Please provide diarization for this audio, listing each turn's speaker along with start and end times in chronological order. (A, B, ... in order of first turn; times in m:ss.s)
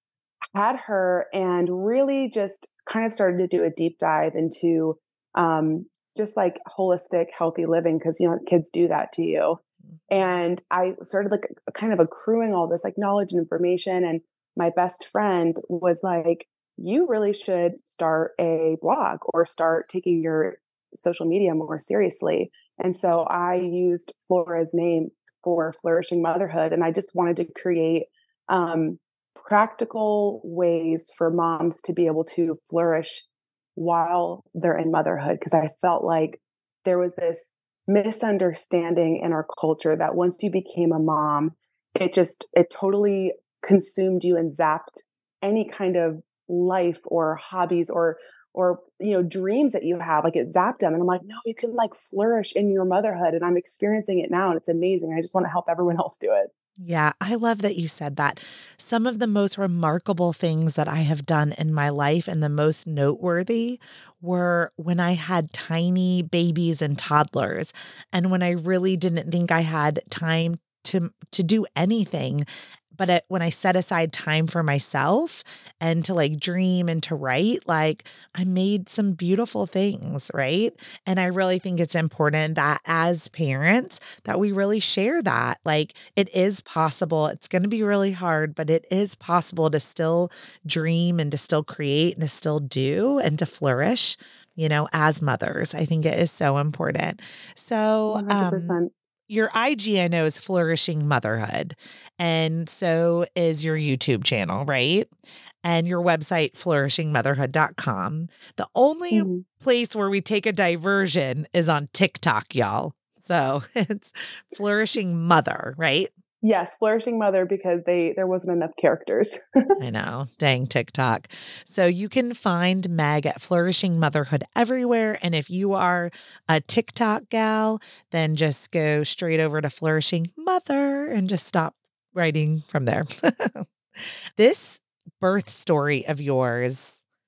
0:00.5-0:33.2 A
0:33.8-0:56.5 A
0:56.8-1:38.8 B
1:38.1-1:38.9 A
1:39.3-1:45.1 B
1:45.6-1:56.1 B
1:49.1-1:49.4 A
1:56.4-1:59.8 A
1:59.8-2:13.6 B
2:14.4-2:17.0 B